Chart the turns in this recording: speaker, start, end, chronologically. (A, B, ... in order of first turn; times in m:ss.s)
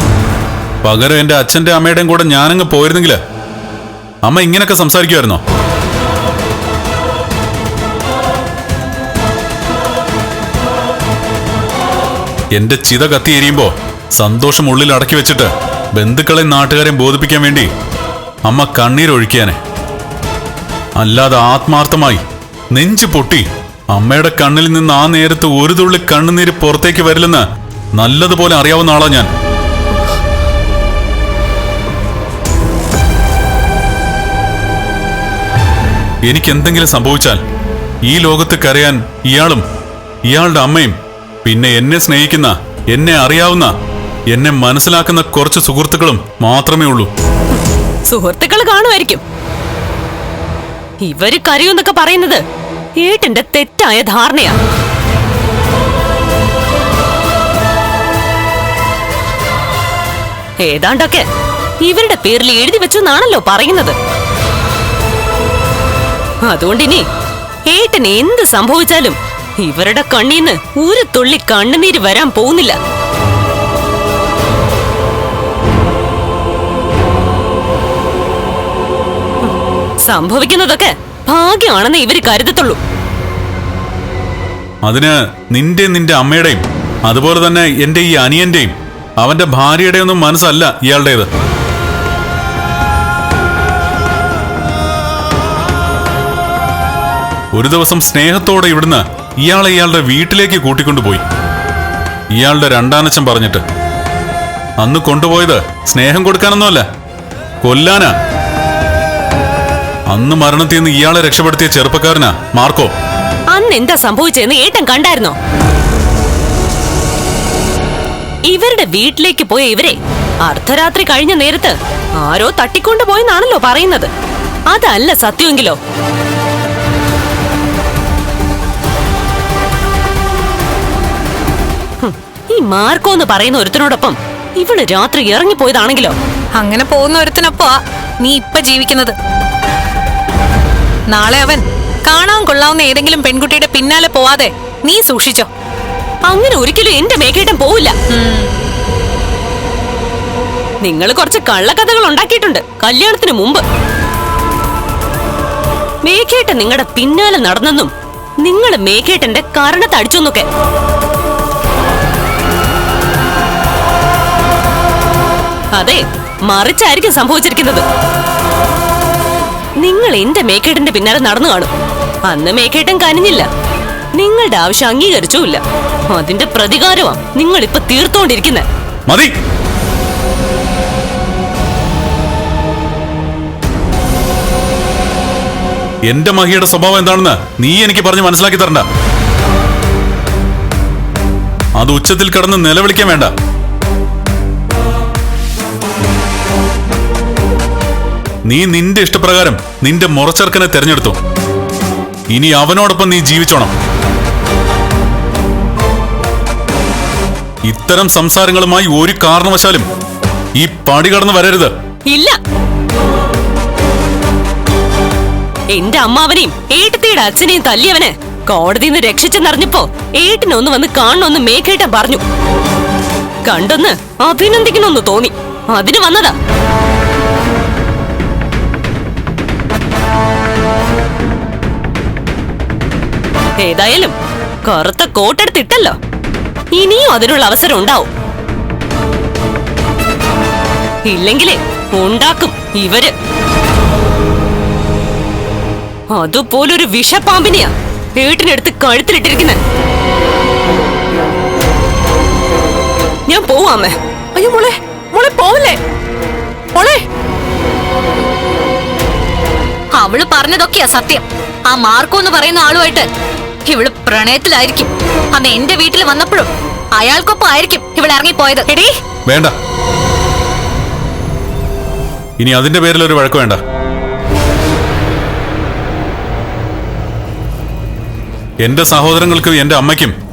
0:00.8-0:03.2 A
0:04.2-0:05.4 A
0:12.5-0:17.7 A
0:18.4-0:19.6 A
0:21.0-0:27.4 A
0:27.9-0:29.3 A
0:36.2-0:37.4 A
0:38.0-0:39.6 A
0:40.3-0:43.7 A
0:44.3-0:47.1 A
0:48.1-0:49.2 B
0:51.0-0:52.4 B
0:53.0-0:54.6 B
1:00.6-1:01.2 B
1:01.8-1:04.0 B
1:06.4-1:07.0 B
1:07.7-1:12.8 B
1:20.0-1:22.8 B
1:24.8-1:31.3 A
1:37.5-1:41.2 A
1:42.4-1:43.6 A
1:44.8-1:46.8 A
1:47.6-1:48.1 A
1:50.1-1:52.9 A
1:53.5-1:55.3 B
1:58.5-2:04.1 B
2:04.7-2:05.8 B
2:12.0-2:16.1 B
2:16.6-2:19.1 C
2:21.1-2:25.5 C
2:26.2-2:27.9 B
2:28.2-2:28.4 C
2:30.8-2:33.6 B
2:36.0-2:37.9 B
2:38.4-2:40.4 B
2:45.7-2:47.8 B
2:49.8-2:51.7 B
2:52.3-2:53.5 B
2:54.1-2:58.6 B
2:59.1-2:59.3 A
3:06.0-3:08.8 A
3:11.8-3:13.3 A
3:18.4-3:21.2 A
3:22.3-3:23.7 A
3:27.6-3:29.9 A
3:30.6-3:31.7 A
3:32.1-3:32.4 B
3:35.7-3:42.2 B
3:43.4-3:46.3 B
3:53.6-3:56.0 B
3:56.7-3:58.1 B
4:01.0-4:03.1 B
4:06.1-4:09.6 B
4:13.3-4:15.8 B
4:16.8-4:17.0 B
4:20.0-4:23.1 D
4:23.6-4:28.9 D
4:29.3-4:29.5 A
4:32.4-4:33.6 A
4:38.6-4:40.1 A